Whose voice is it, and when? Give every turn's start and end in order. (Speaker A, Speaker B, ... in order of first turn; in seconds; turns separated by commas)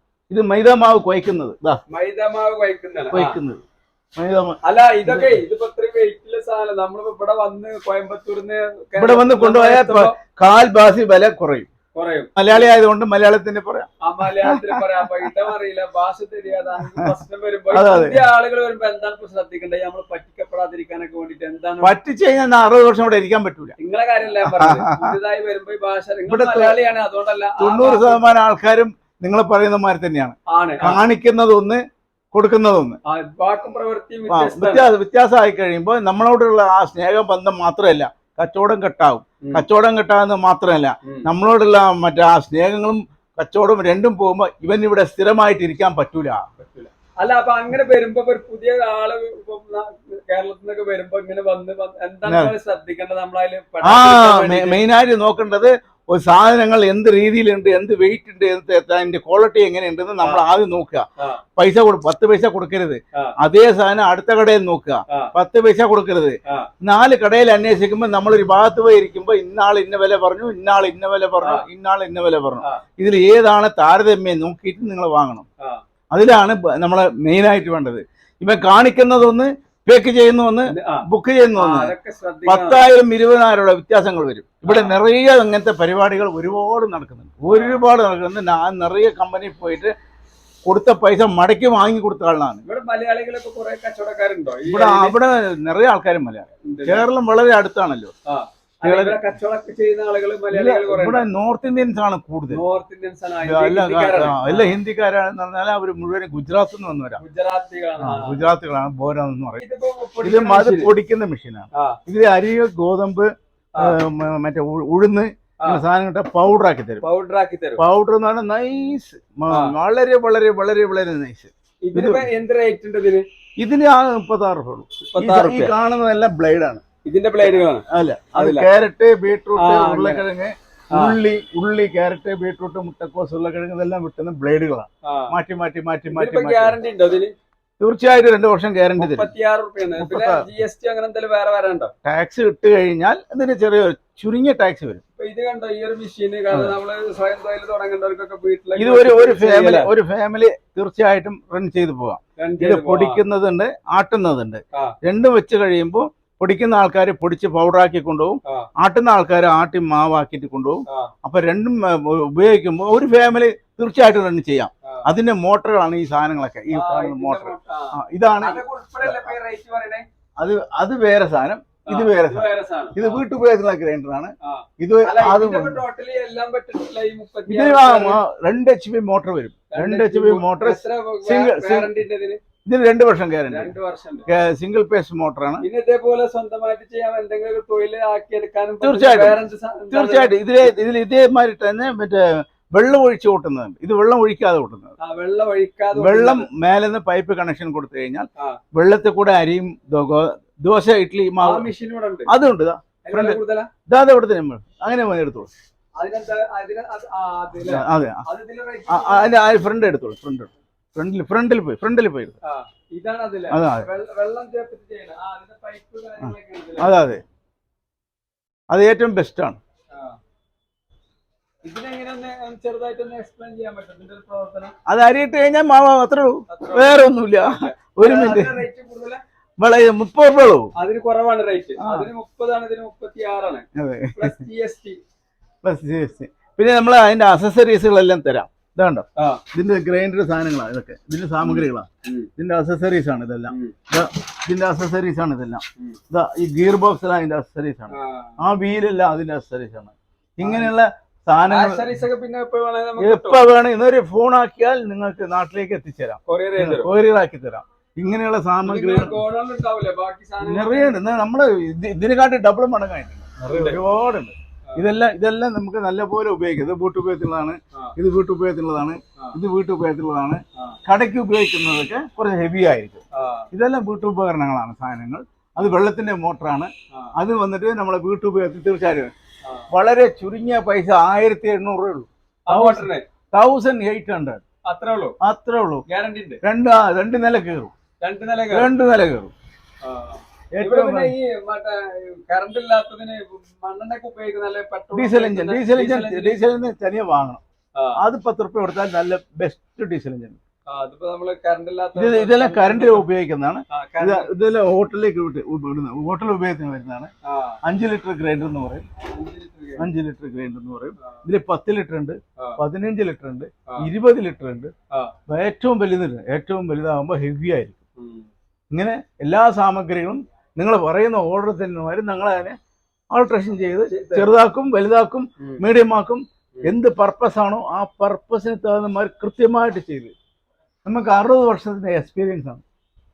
Speaker A: 0.3-1.8, Speaker B: 1.9-3.4, Speaker A: 3.1-3.6, Speaker A: 4.2-5.3, Speaker B: 4.6-10.2, Speaker A: 9.0-11.7, Speaker B: 11.9-12.6, Speaker A: 12.4-15.3, Speaker B: 14.0-22.0, Speaker A: 17.7-18.3, Speaker A: 21.8-23.8, Speaker B: 23.8-28.2, Speaker A: 24.4-25.2, Speaker A: 26.3-26.8, Speaker A: 27.6-31.8, Speaker B: 30.5-31.0, Speaker A: 32.3-33.0, Speaker B: 33.1-34.9, Speaker A: 34.3-46.4, Speaker B: 46.6-54.8, Speaker A: 52.3-52.5, Speaker A: 53.8-61.1, Speaker A: 61.6-75.5, Speaker B: 71.4-71.7, Speaker A: 76.1-81.9, Speaker B: 80.7-82.8, Speaker A: 82.5-89.9, Speaker B: 84.7-85.0, Speaker B: 87.5-87.8, Speaker A: 90.7-92.6, Speaker B: 92.7-95.2, Speaker A: 94.7-98.1, Speaker B: 96.6-97.1, Speaker B: 98.3-101.3, Speaker A: 98.8-99.2, Speaker A: 100.5-102.6, Speaker B: 102.5-104.8, Speaker A: 103.4-107.2, Speaker B: 107.2-108.5, Speaker A: 108.0-109.6, Speaker B: 109.6-110.9, Speaker A: 110.2-117.0, Speaker B: 111.7-112.0, Speaker B: 117.0-117.8, Speaker A: 117.8-122.3, Speaker B: 121.8-123.2, Speaker A: 123.6-126.8, Speaker B: 125.1-125.7, Speaker B: 127.0-128.7, Speaker A: 127.9-136.8, Speaker B: 129.6-130.2, Speaker B: 130.9-131.2, Speaker B: 135.1-135.3, Speaker B: 136.1-137.3, Speaker A: 137.8-139.3, Speaker B: 139.0-141.9, Speaker A: 140.0-140.4, Speaker A: 142.1-145.0, Speaker B: 145.2-149.9, Speaker A: 146.5-146.8, Speaker A: 148.8-169.3, Speaker B: 152.4-153.2, Speaker B: 166.7-170.1, Speaker A: 170.4-175.8, Speaker B: 171.9-173.2, Speaker B: 174.4-178.2, Speaker A: 177.5-181.9, Speaker B: 179.7-182.4, Speaker A: 182.7-183.7, Speaker B: 183.5-184.3, Speaker A: 184.3-185.7, Speaker B: 185.6-190.3, Speaker A: 188.8-189.4, Speaker A: 189.9-194.9, Speaker B: 195.0-196.5, Speaker A: 195.9-201.7, Speaker B: 201.4-202.3, Speaker A: 202.3-205.5, Speaker B: 203.0-203.7, Speaker B: 206.0-209.3, Speaker A: 207.6-208.2, Speaker A: 208.9-212.4, Speaker B: 212.4-216.9, Speaker A: 213.5-213.9, Speaker A: 216.2-217.2, Speaker A: 218.7-219.6, Speaker B: 219.9-220.2, Speaker B: 221.6-224.8, Speaker A: 224.9-228.6, Speaker B: 226.5-229.2, Speaker A: 229.6-230.7, Speaker B: 230.8-235.0, Speaker A: 231.8-232.1, Speaker A: 233.8-234.4, Speaker A: 235.6-251.9, Speaker B: 241.4-242.3, Speaker B: 243.5-243.8, Speaker B: 247.9-248.4, Speaker B: 250.4-250.7, Speaker B: 251.5-253.4, Speaker A: 253.0-259.2, Speaker B: 256.3-256.9, Speaker B: 258.6-261.1, Speaker A: 260.4-279.1, Speaker B: 263.4-263.8, Speaker B: 273.1-273.5, Speaker A: 279.7-284.4, Speaker B: 282.5-283.1, Speaker B: 284.7-285.2, Speaker A: 285.2-285.8, Speaker B: 285.9-286.4, Speaker A: 286.4-287.7, Speaker B: 288.0-288.7, Speaker A: 288.5-289.3, Speaker B: 289.8-296.4, Speaker A: 290.5-291.1, Speaker A: 294.9-297.4, Speaker A: 298.0-300.4, Speaker B: 300.7-303.1, Speaker A: 301.9-307.1, Speaker B: 303.7-304.3, Speaker B: 307.2-307.6, Speaker A: 307.6-308.9, Speaker B: 309.1-309.9, Speaker A: 309.8-314.7, Speaker A: 315.3-317.8, Speaker B: 318.0-318.3, Speaker A: 318.7-322.6, Speaker A: 323.1-330.1, Speaker B: 323.9-324.3, Speaker A: 330.9-332.6